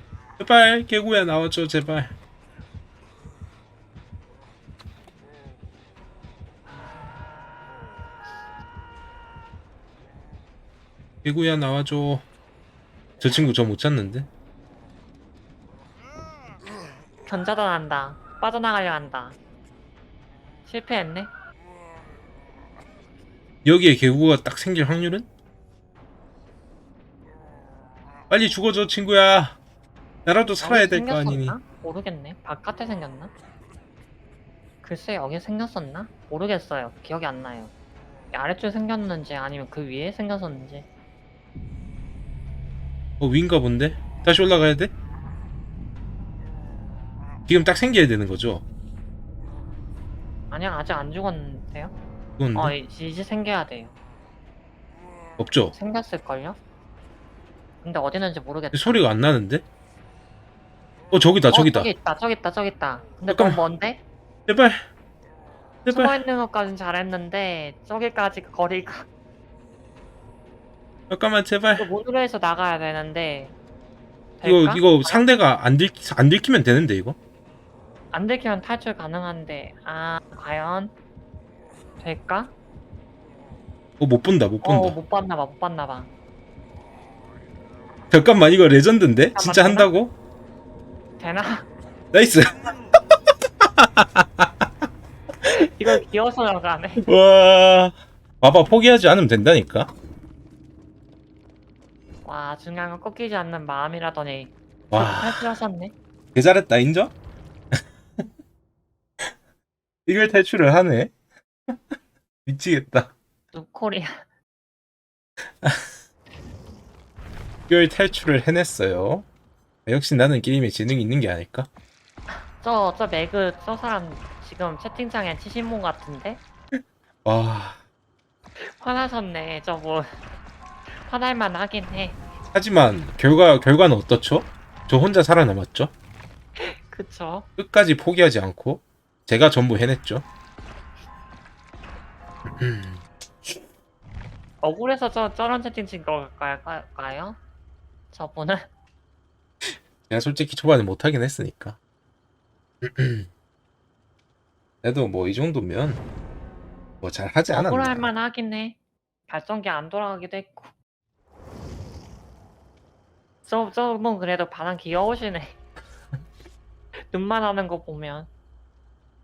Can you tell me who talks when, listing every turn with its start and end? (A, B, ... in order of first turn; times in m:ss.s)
0:00.4-0:02.1 A
0:11.2-0:12.2 A
0:13.2-0:14.3 A
0:17.3-0:19.4 B
0:20.6-0:21.3 B
0:23.6-0:25.3 A
0:28.3-0:29.6 A
0:30.2-0:31.6 A
0:30.6-0:33.3 B
0:34.8-0:37.7 B
0:38.3-0:40.8 B
0:43.2-0:44.9 A
0:47.5-0:48.6 A
0:50.5-0:51.9 B
0:52.4-0:52.7 A
0:52.5-0:53.9 B
0:55.4-0:55.8 A
0:55.7-0:56.6 B
0:57.8-0:59.0 B
0:58.7-0:59.6 A
1:01.1-1:01.9 A
1:01.5-1:04.0 B
1:03.3-1:03.6 A
1:04.5-1:04.8 A
1:05.8-1:09.1 B
1:05.9-1:06.2 A
1:11.1-1:11.9 A
1:11.8-1:13.5 B
1:14.4-1:15.3 B
1:14.4-1:17.2 A
1:18.1-1:20.9 B
1:22.0-1:22.5 B
1:24.0-1:25.0 A
1:24.6-1:26.1 B
1:28.1-1:30.1 A
1:29.4-1:29.9 B
1:31.2-1:31.7 B
1:32.1-1:32.7 A
1:33.6-1:34.7 A
1:35.4-1:37.0 B
1:37.0-1:39.9 A
1:42.2-1:45.9 B
1:44.9-1:45.5 A
1:46.3-1:47.1 A
1:50.0-1:51.1 A
1:52.4-1:53.1 A
1:53.5-1:54.2 B
1:55.6-1:55.9 A
1:57.7-1:59.2 A
1:59.8-2:01.7 A
2:02.3-2:06.4 B
2:06.7-2:07.8 A
2:08.6-2:10.2 B
2:10.9-2:12.2 B
2:12.5-2:15.9 A
2:16.6-2:17.5 B
2:17.6-2:20.2 A
2:22.5-2:23.0 A
2:24.6-2:27.4 B
2:28.1-2:28.6 B
2:30.0-2:31.8 A
2:32.8-2:33.3 A
2:34.8-2:36.0 A
2:37.0-2:38.1 A
2:37.5-2:38.8 B
2:39.3-2:40.7 B
2:43.4-2:45.6 B
2:47.1-2:48.3 B